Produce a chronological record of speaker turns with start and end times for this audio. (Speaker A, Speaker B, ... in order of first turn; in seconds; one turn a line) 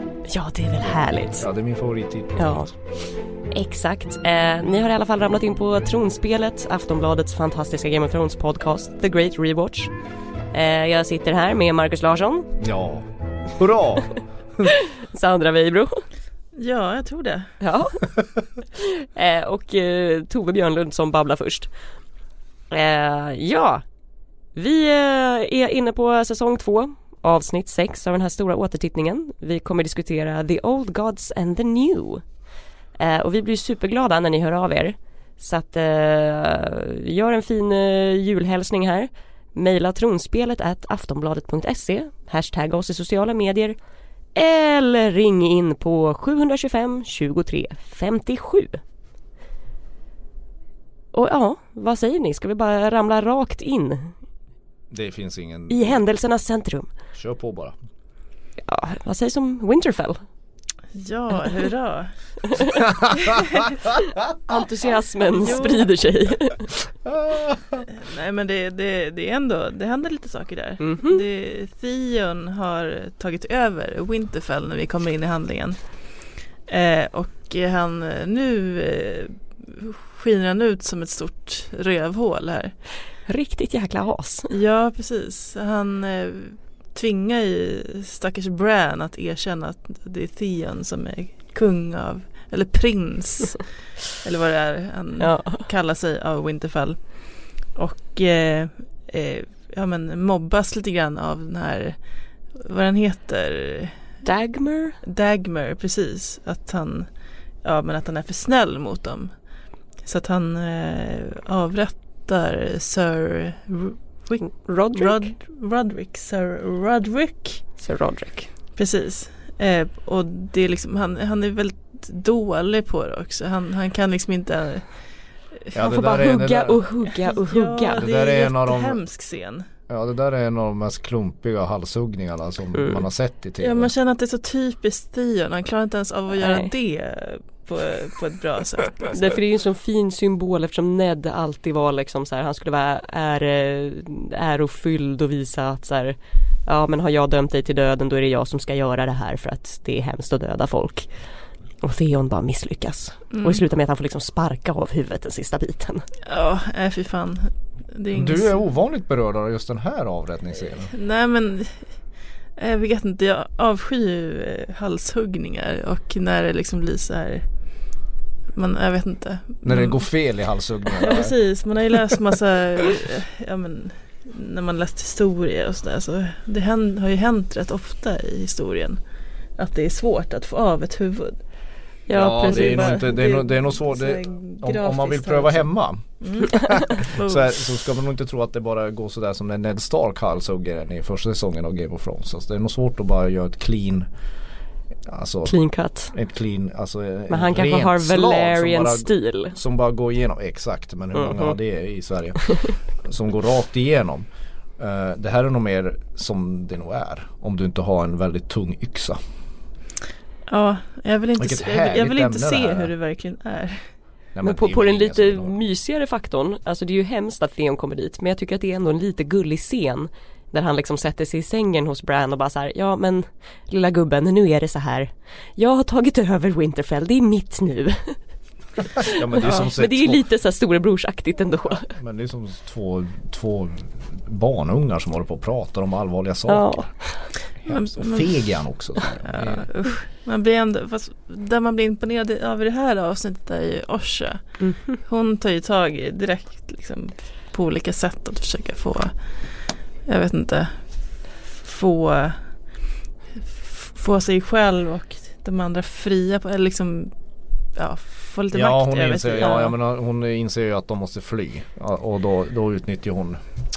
Speaker A: 0.3-1.5
Speaker B: 0.8-2.8
Speaker A: 2.4-2.7
Speaker A: 3.5-9.9
Speaker A: 10.5-12.5
Speaker B: 12.6-14.7
Speaker A: 14.7-16.0
Speaker C: 16.6-17.5
Speaker A: 17.6-18.0
Speaker A: 18.7-21.7
Speaker A: 22.7-23.8
Speaker A: 24.5-32.2
Speaker A: 33.0-43.8
Speaker A: 44.3-48.8
Speaker A: 51.1-54.1
Speaker B: 54.9-56.0
Speaker A: 55.7-56.9
Speaker B: 57.1-57.7
Speaker A: 58.6-60.2
Speaker C: 60.9-62.1
Speaker A: 62.5-62.8
Speaker B: 62.8-63.4
Speaker C: 63.2-63.6
Speaker A: 64.5-66.7
Speaker C: 65.3-65.9
Speaker B: 67.0-67.8
Speaker C: 67.9-75.8
Speaker A: 70.8-71.2
Speaker C: 76.7-82.7
Speaker A: 83.3-84.5
Speaker C: 84.5-93.6
Speaker C: 94.2-97.0
Speaker A: 95.2-95.7
Speaker C: 97.8-102.0
Speaker C: 102.5-104.0
Speaker A: 104.2-105.0
Speaker C: 105.0-107.1
Speaker C: 107.6-109.3
Speaker C: 110.0-117.6
Speaker A: 114.4-115.3
Speaker A: 117.8-118.5
Speaker C: 118.8-124.9
Speaker B: 125.7-126.8
Speaker A: 125.7-128.1
Speaker C: 127.2-129.7
Speaker B: 128.0-129.0
Speaker B: 129.9-133.9
Speaker A: 132.7-133.0
Speaker C: 133.6-139.3
Speaker A: 136.4-136.7
Speaker A: 139.1-151.1
Speaker A: 151.8-156.1
Speaker C: 153.3-153.6
Speaker C: 156.3-158.5
Speaker B: 158.1-160.9
Speaker C: 160.9-161.8
Speaker C: 162.6-167.4
Speaker C: 168.5-170.0
Speaker B: 169.6-171.4
Speaker C: 170.9-179.0
Speaker C: 179.6-181.4
Speaker A: 182.1-183.0
Speaker B: 182.1-194.1
Speaker C: 182.3-185.6
Speaker C: 186.2-187.5
Speaker B: 195.1-195.6
Speaker A: 195.4-196.1
Speaker B: 196.1-202.5
Speaker A: 197.3-199.6
Speaker A: 201.1-201.5
Speaker A: 202.4-202.7
Speaker B: 203.0-204.2
Speaker B: 204.8-209.2
Speaker C: 210.5-213.8
Speaker B: 211.4-212.9
Speaker B: 214.3-215.6
Speaker A: 214.4-228.2
Speaker B: 229.0-230.2
Speaker A: 229.0-231.9
Speaker B: 231.7-236.9
Speaker A: 236.5-237.3
Speaker B: 237.6-239.6
Speaker C: 237.7-238.3
Speaker C: 239.2-244.4
Speaker A: 244.6-244.9
Speaker C: 245.0-249.1
Speaker C: 250.1-250.7
Speaker C: 251.6-252.4
Speaker C: 253.5-257.1
Speaker C: 257.8-259.7
Speaker B: 258.5-263.4